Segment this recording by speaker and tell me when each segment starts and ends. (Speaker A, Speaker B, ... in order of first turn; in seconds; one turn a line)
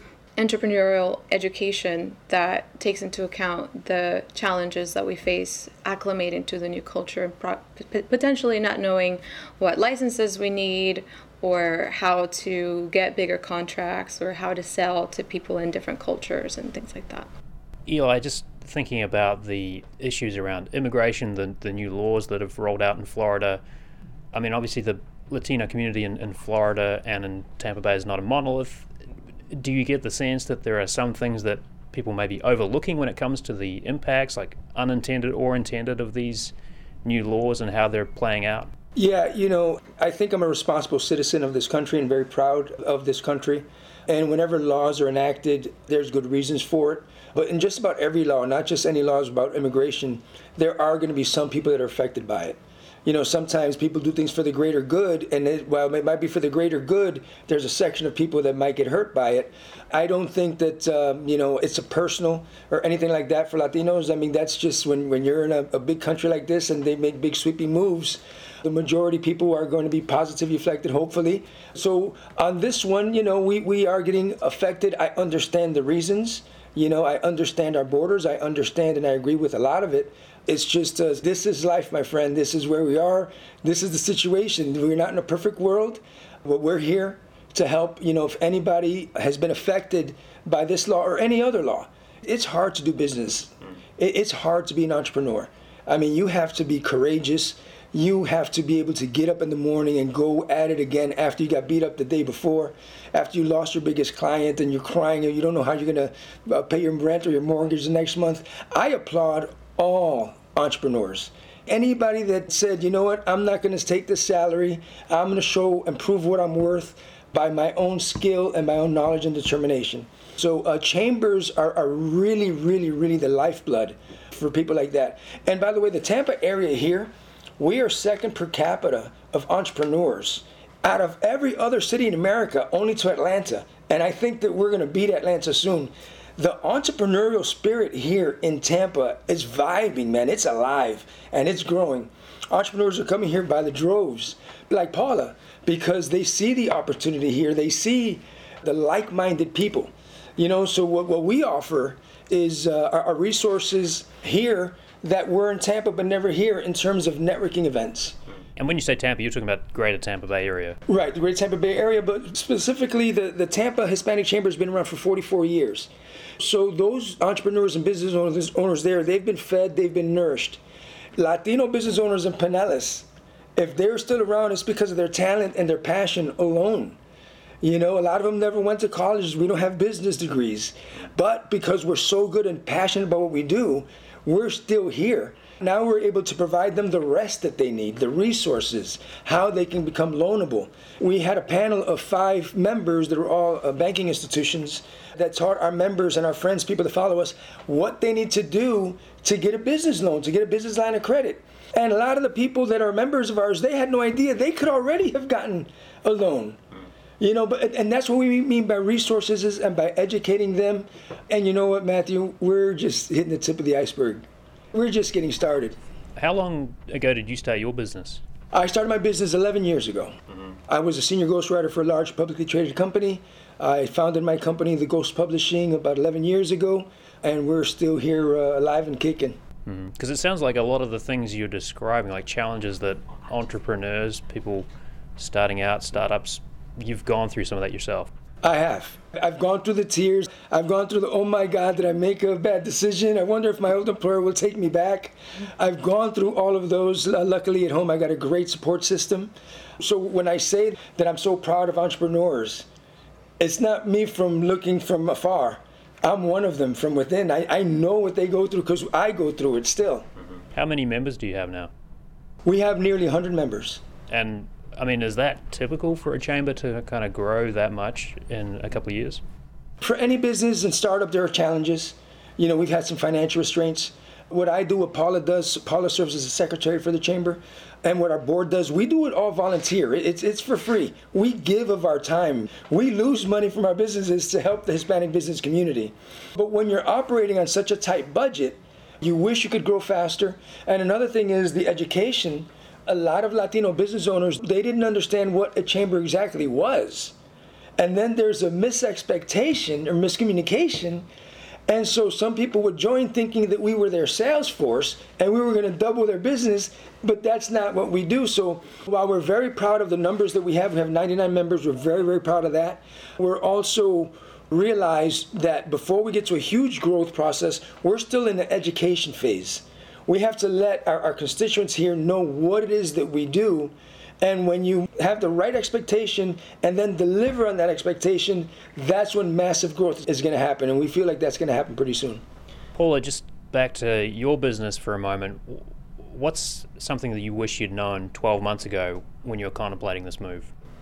Speaker A: 0.4-17.3
Speaker B: 17.9-23.6
Speaker B: 24.3-28.9
Speaker B: 29.5-36.5
Speaker B: 37.0-38.7
Speaker C: 39.0-158.2
Speaker B: 158.6-160.8
Speaker C: 160.9-170.6
Speaker C: 171.2-177.0
Speaker C: 177.6-206.6
Speaker C: 207.2-215.8
Speaker B: 216.2-218.2
Speaker C: 218.5-220.2
Speaker C: 220.7-229.4
Speaker B: 229.6-238.1
Speaker C: 238.4-252.7
Speaker C: 253.4-260.1
Speaker B: 260.5-261.7
Speaker C: 262.4-263.8
Speaker B: 264.1-269.2
Speaker C: 269.8-297.1
Speaker C: 297.8-301.1
Speaker C: 301.7-332.2
Speaker B: 332.7-340.5